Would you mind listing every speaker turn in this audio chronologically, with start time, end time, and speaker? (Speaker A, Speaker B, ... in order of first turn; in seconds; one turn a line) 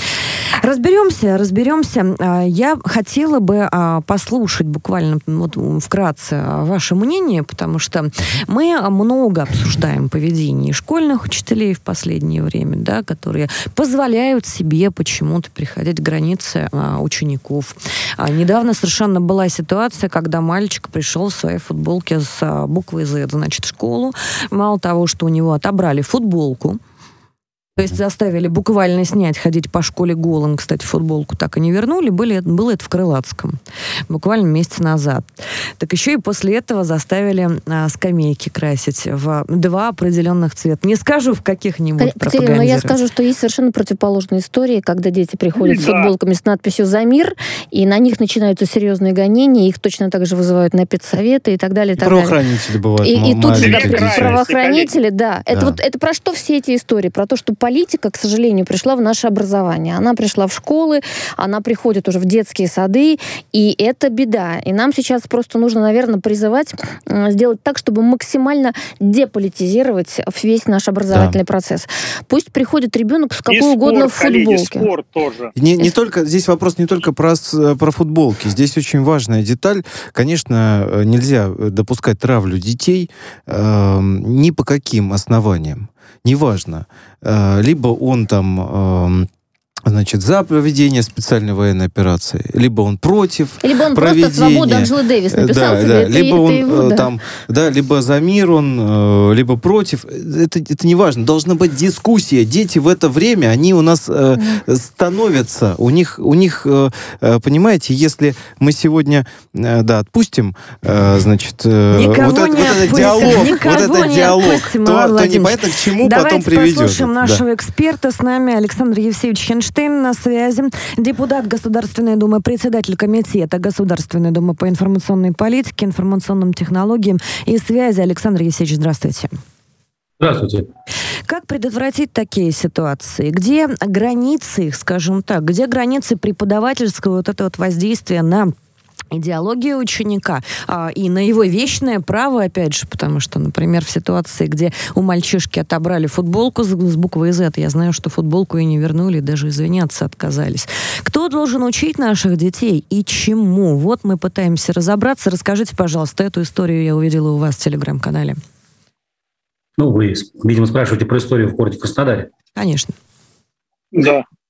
Speaker A: 0.6-26.8
Speaker A: 27.8-33.6
Speaker A: 34.1-43.0
Speaker B: 42.0-52.4
Speaker C: 45.5-46.1
Speaker D: 52.0-54.4
Speaker B: 53.0-74.9
Speaker C: 53.5-54.9
Speaker D: 55.5-55.8
Speaker D: 71.1-71.4
Speaker C: 73.5-75.5
Speaker D: 75.5-89.3
Speaker D: 89.8-117.4
Speaker B: 93.6-97.1
Speaker A: 111.9-129.4
Speaker E: 130.2-130.7
Speaker A: 131.3-138.5
Speaker A: 139.1-158.4
Speaker E: 159.8-162.3
Speaker A: 162.5-162.9
Speaker C: 163.9-164.2